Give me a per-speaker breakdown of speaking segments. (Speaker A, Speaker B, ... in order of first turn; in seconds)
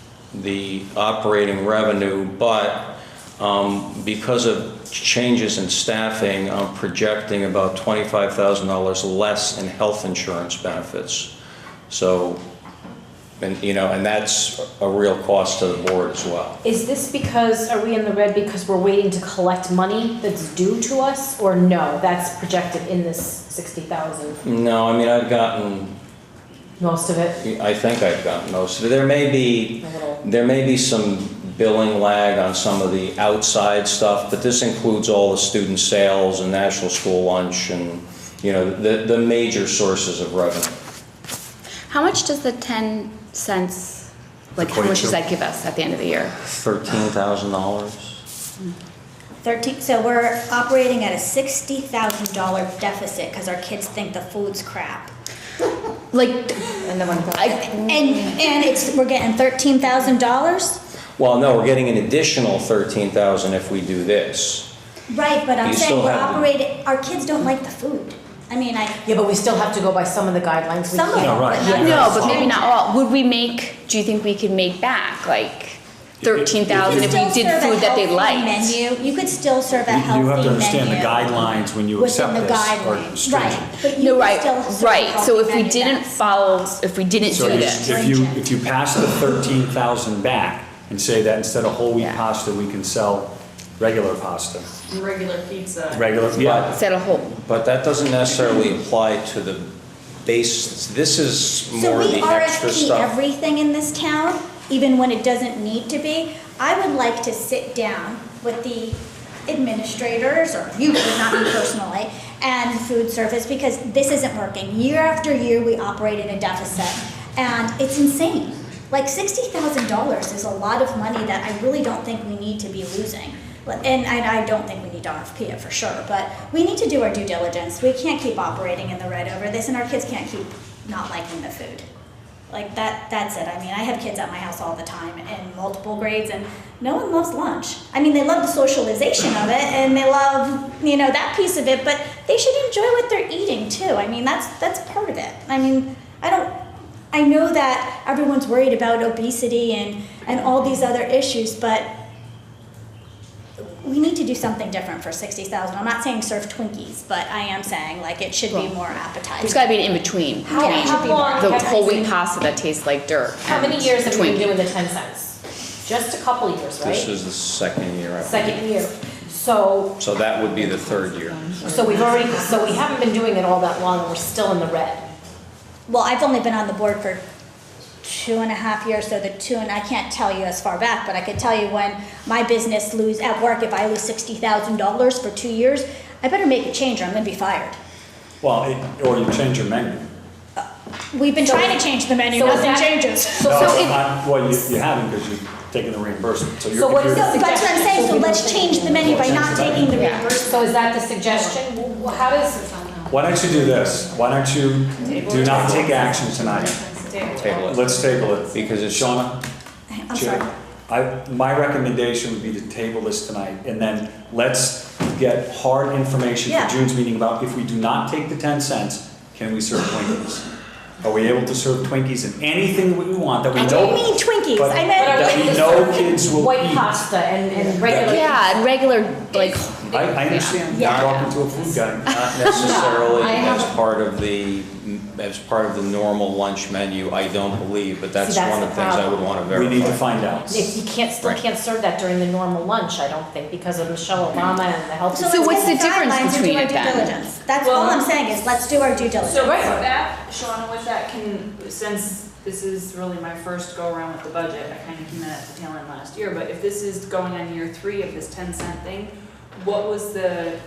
Speaker A: 0.3-11.3, 11.9-12.4, 13.4-16.6, 24.4-25.9, 27.4-40.7, 46.4-48.2, 61.2-64.7, 65.6-66.5, 96.3-96.7, 97.2-99.7, 100.2-103.1, 166.8-168.6, 170.0-171.6, 205.4-206.0, 207.3-208.0, 208.5-209.2, 232.0-240.0
Speaker B: 16.6-24.4, 26.8-27.4, 29.8-30.2, 69.0-72.0, 160.4-162.1, 163.4-167.1, 168.2-170.0, 171.6-175.0, 191.4-191.7, 192.3-193.8, 196.7-202.6, 224.9-228.6, 232.6-233.0, 238.2-239.2, 240.5-245.8, 249.4-249.8
Speaker C: 41.9-46.3, 56.1-58.5, 71.7-78.8, 84.0-87.9, 96.7-97.3, 159.4-164.6, 170.6-172.4, 199.9-200.3, 202.1-204.1, 207.3-208.3, 227.9-231.3, 232.7-233.7, 245.3-247.1
Speaker D: 44.6-45.2, 71.2-72.5, 76.2-77.2, 79.9-83.7, 87.3-94.7, 95.9-96.7, 188.4-190.1, 193.4-197.3, 198.9-199.9, 203.1-206.8, 207.6-209.4, 210.1-220.5, 221.0-227.1, 227.8-228.3, 229.9-232.4, 239.5-240.8, 249.5-249.8
Speaker E: 49.4-55.1, 57.6-60.8, 65.1-69.0, 70.8-72.8, 76.8-86.2, 87.3-88.5, 101.8-131.8, 132.5-146.5, 147.1-151.9, 153.6-159.7, 160.5-162.0, 175.9-177.2, 178.0-187.8, 190.6-194.5, 197.1-200.5, 209.9-210.5, 216.5-216.7, 223.5-226.1, 230.7-231.1, 245.1-249.8
Speaker F: 94.9-96.6, 205.0-207.7, 247.6-260.6